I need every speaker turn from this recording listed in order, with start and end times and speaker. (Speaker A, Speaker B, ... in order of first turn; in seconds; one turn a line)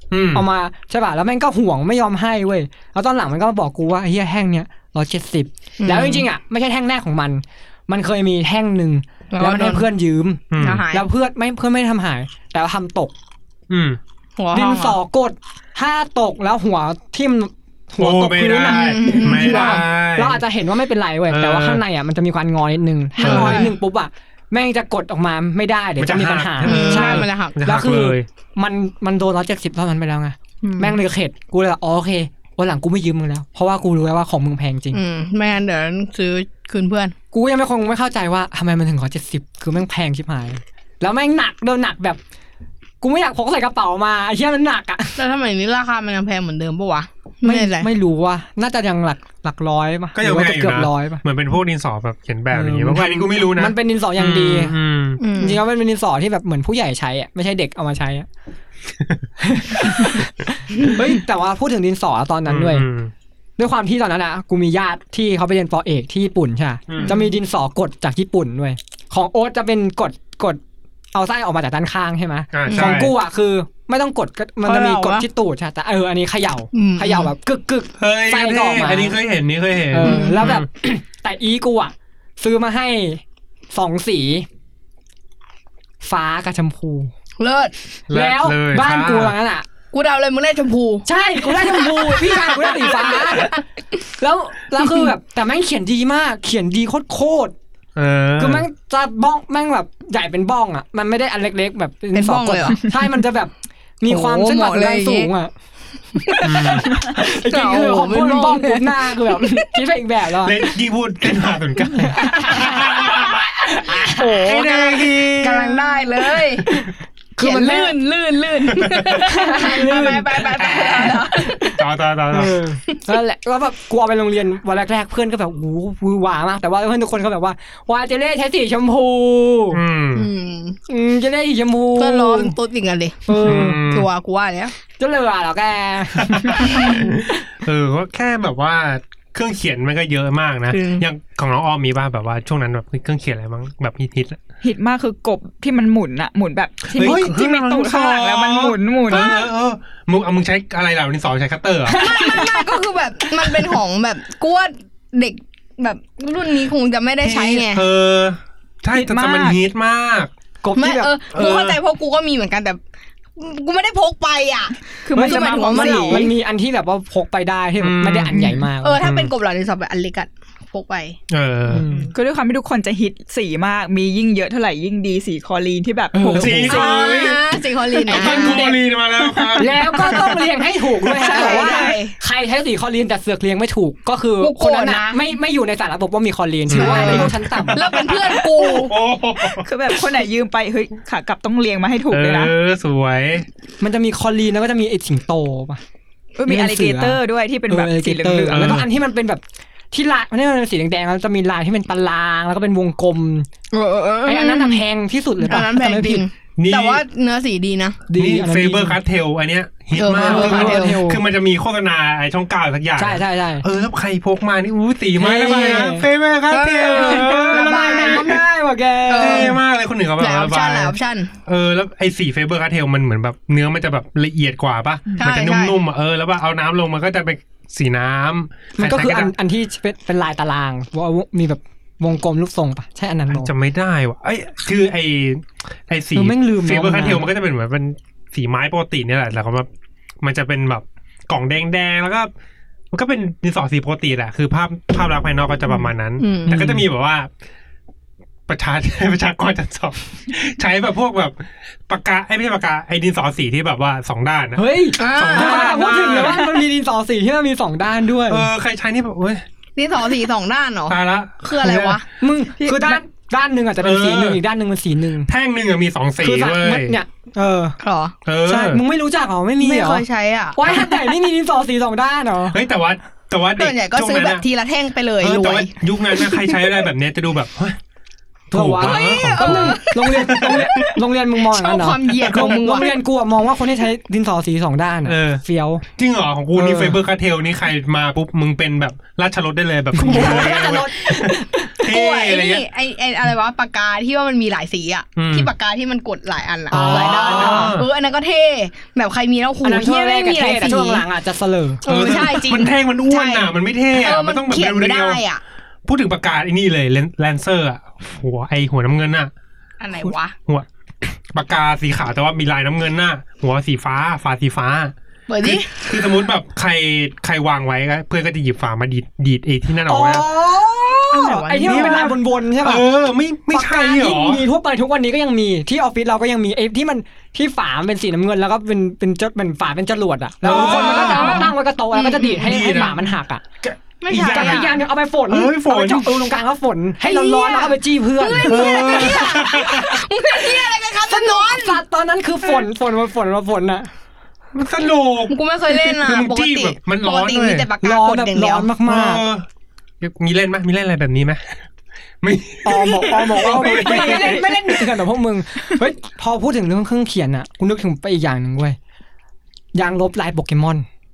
Speaker A: 0.1-0.4
Speaker B: 0.3-13.1
Speaker C: 5.8-6.2
Speaker C: 9.3-9.9
Speaker A: 10.5-10.8
Speaker C: 10.6-11.1
Speaker A: 13.7-14.0
Speaker C: 14.4-15.0
Speaker B: 14.5-35.0
Speaker A: 18.0-20.4
Speaker C: 18.7-19.8
Speaker A: 21.3-21.8
Speaker C: 23.2-23.7
Speaker A: 23.2-23.7
Speaker A: 26.0-28.3
Speaker C: 26.6-27.6
Speaker C: 30.6-31.0
Speaker C: 34.9-37.1
Speaker B: 37.3-42.2
Speaker B: 43.0-45.2
Speaker C: 45.2-47.9
Speaker B: 47.4-51.2
Speaker A: 50.1-55.2
Speaker B: 52.5-54.7
Speaker C: 55.2-55.6
Speaker B: 55.4-58.3
Speaker B: 59.4-62.9
Speaker A: 62.5-63.1
Speaker B: 63.6-70.6
Speaker A: 66.9-67.1
Speaker B: 71.1-79.2
Speaker A: 72.5-73.1
Speaker C: 72.7-73.0
Speaker C: 74.6-75.2
Speaker C: 76.7-77.3
Speaker A: 78.0-80.7
Speaker B: 79.9-84.5
Speaker C: 80.0-80.5
Speaker B: 86.0-87.1
Speaker C: 87.4-87.7
Speaker A: 88.1-89.3
Speaker B: 88.1-89.7
Speaker C: 89.9-93.6
Speaker B: 91.0-93.6
Speaker B: 94.2-97.5
Speaker A: 98.0-98.7
Speaker B: 98.4-105.5
Speaker C: 102.1-103.0
Speaker C: 104.1-105.3
Speaker C: 106.3-109.6
Speaker B: 106.3-110.7
Speaker A: 106.4-106.9
Speaker A: 110.4-116.0
Speaker B: 111.9-113.0
Speaker C: 112.9-116.8
Speaker B: 113.7-114.3
Speaker B: 117.4-118.0
Speaker C: 117.4-121.7
Speaker A: 118.7-119.2
Speaker B: 119.2-120.5
Speaker A: 120.4-122.6
Speaker B: 121.1-121.8
Speaker B: 122.3-129.8
Speaker A: 129.7-130.3
Speaker C: 130.1-130.8
Speaker B: 130.9-132.5
Speaker C: 131.9-134.7
Speaker B: 133.3-133.8
Speaker A: 133.4-134.1
Speaker B: 135.0-136.8
Speaker A: 136.2-144.4
Speaker C: 136.6-136.9
Speaker C: 140.7-141.0
Speaker D: 144.6-149.5
Speaker A: 146.9-152.2
Speaker B: 151.9-152.7
Speaker C: 151.9-157.8
Speaker B: 153.4-153.7
Speaker A: 157.2-160.3
Speaker D: 158.9-159.6
Speaker B: 160.6-161.1
Speaker C: 160.8-162.8
Speaker A: 161.3-161.8
Speaker C: 163.4-166.3
Speaker D: 165.1-166.3
Speaker B: 165.1-169.0
Speaker A: 167.8-169.3
Speaker C: 168.8-171.2
Speaker A: 171.3-171.8
Speaker B: 171.7-172.1
Speaker D: 172.1-177.3
Speaker B: 176.1-177.2
Speaker A: 176.2-177.4
Speaker C: 176.7-178.7
Speaker B: 178.1-178.9
Speaker A: 178.1-180.5
Speaker B: 179.5-187.8
Speaker C: 181.2-182.1
Speaker D: 181.3-182.0
Speaker C: 184.4-185.2
Speaker A: 186.7-189.7
Speaker C: 186.7-188.9
Speaker D: 189.6-192.5
Speaker A: 192.1-193.4
Speaker B: 193.8-195.8
Speaker D: 196.4-198.8
Speaker B: 196.4-203.5
Speaker A: 198.5-198.9
Speaker C: 203.7-204.8
Speaker B: 204.2-206.2
Speaker C: 205.4-208.0
Speaker A: 206.6-207.0
Speaker B: 208.1-209.0
Speaker A: 208.1-218.4
Speaker C: 209.9-211.0
Speaker B: 210.1-211.2
Speaker B: 213.0-213.6
Speaker B: 215.2-216.1
Speaker C: 216.5-218.4
Speaker B: 216.8-219.6
Speaker C: 219.1-219.6
Speaker A: 219.2-229.3
Speaker C: 220.2-221.3
Speaker C: 225.2-225.8
Speaker B: 228.8-233.5
Speaker A: 233.3-239.7
Speaker B: 236.1-237.3
Speaker A: 240.2-242.3
Speaker A: 242.9-247.3
Speaker C: 246.2-246.7
Speaker B: 246.5-246.8
Speaker A: 248.5-251.3
Speaker A: 251.9-256.5
Speaker B: 254.6-258.5
Speaker C: 255.0-256.0
Speaker A: 258.3-259.4
Speaker C: 259.8-262.1
Speaker A: 260.9-262.0
Speaker B: 262.2-265.3
Speaker C: 262.6-262.9
Speaker A: 263.8-264.4
Speaker A: 265.3-267.0
Speaker B: 266.2-267.8
Speaker C: 267.8-268.1
Speaker A: 268.2-268.8
Speaker B: 268.4-272.6
Speaker C: 269.6-271.1
Speaker A: 272.5-274.4
Speaker C: 273.6-276.7
Speaker A: 275.2-277.8
Speaker A: 278.5-280.7
Speaker B: 278.5-285.8
Speaker C: 278.8-280.9
Speaker C: 281.5-283.0
Speaker A: 282.3-282.6
Speaker A: 285.0-285.4
Speaker A: 285.9-292.7
Speaker B: 286.5-287.0
Speaker B: 289.9-291.8
Speaker C: 291.8-301.0
Speaker A: 295.1-295.5
Speaker B: 296.7-297.8
Speaker A: 296.7-297.9
Speaker B: 299.6-302.3
Speaker C: 301.8-305.4
Speaker A: 301.9-305.2
Speaker A: 305.9-309.3
Speaker C: 309.8-310.3
Speaker A: 310.1-320.3
Speaker C: 315.3-315.9
Speaker B: 319.9-322.9
Speaker C: 321.1-322.1
Speaker A: 321.6-324.4
Speaker B: 323.5-333.4
Speaker A: 330.4-331.5
Speaker C: 330.5-332.7
Speaker A: 332.4-333.0
Speaker A: 333.6-336.2
Speaker C: 334.0-334.7
Speaker B: 334.1-339.2
Speaker C: 337.0-341.8
Speaker A: 338.4-340.0
Speaker B: 341.0-343.9
Speaker A: 344.5-347.7
Speaker C: 345.3-348.7
Speaker B: 347.8-349.2
Speaker A: 348.9-349.4
Speaker A: 350.0-351.6
Speaker A: 352.2-354.8
Speaker B: 352.6-358.8
Speaker B: 359.7-360.9